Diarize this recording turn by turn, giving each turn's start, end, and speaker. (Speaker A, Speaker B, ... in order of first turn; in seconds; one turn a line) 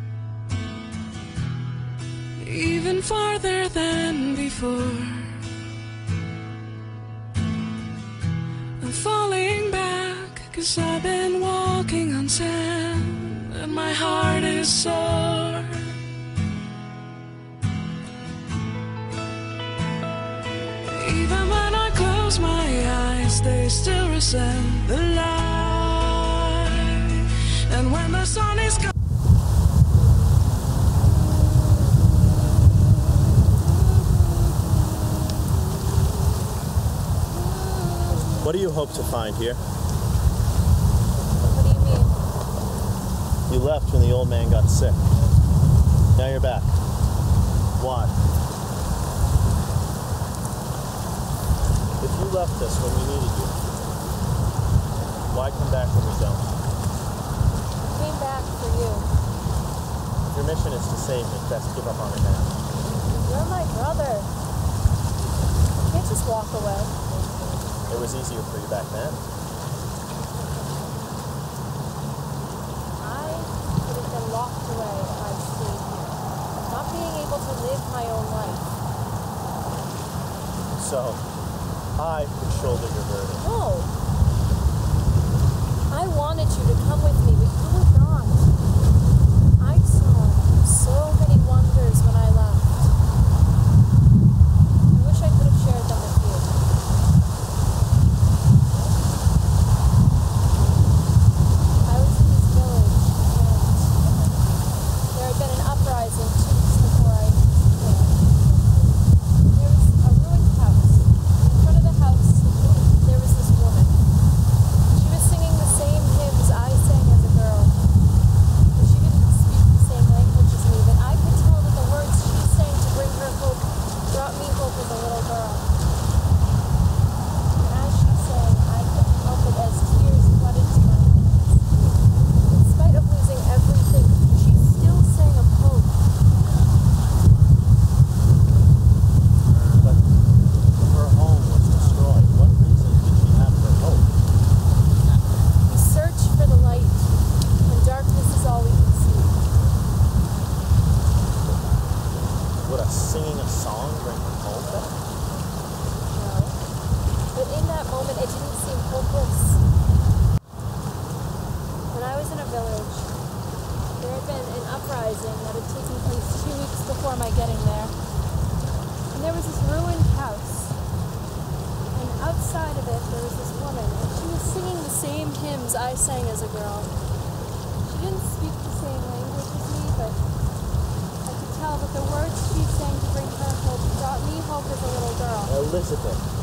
Speaker A: 2.4-5.4
Speaker A: 8.8-15.9
Speaker A: 20.8-28.9
Speaker B: 31.6-36.5
Speaker B: 37.3-39.0
Speaker C: 38.4-39.6
Speaker B: 41.4-42.2
Speaker C: 43.5-45.1
Speaker C: 46.1-46.8
Speaker C: 47.8-48.2
Speaker C: 52.0-53.5
Speaker C: 55.3-56.5
Speaker B: 57.9-59.1
Speaker C: 60.3-62.6
Speaker B: 63.1-64.3
Speaker B: 65.9-66.9
Speaker C: 67.9-69.2
Speaker B: 73.0-78.7
Speaker C: 80.8-81.2
Speaker C: 82.0-83.4
Speaker B: 83.4-83.9
Speaker B: 85.9-88.5
Speaker B: 89.6-92.9
Speaker B: 94.9-96.6
Speaker B: 101.8-104.0
Speaker B: 105.1-108.2
Speaker B: 109.5-114.0
Speaker B: 114.9-117.7
Speaker B: 118.7-125.7
Speaker B: 127.6-131.7
Speaker B: 132.5-136.0
Speaker C: 139.8-140.1
Speaker C: 140.8-144.1
Speaker B: 145.7-147.1
Speaker B: 147.7-149.4
Speaker C: 152.6-155.0
Speaker B: 156.1-156.6
Speaker B: 157.3-159.6
Speaker B: 161.9-163.1
Speaker B: 164.0-167.9
Speaker B: 169.1-170.8
Speaker B: 171.9-176.9
Speaker B: 177.8-180.2
Speaker B: 181.2-185.6
Speaker C: 185.5-186.2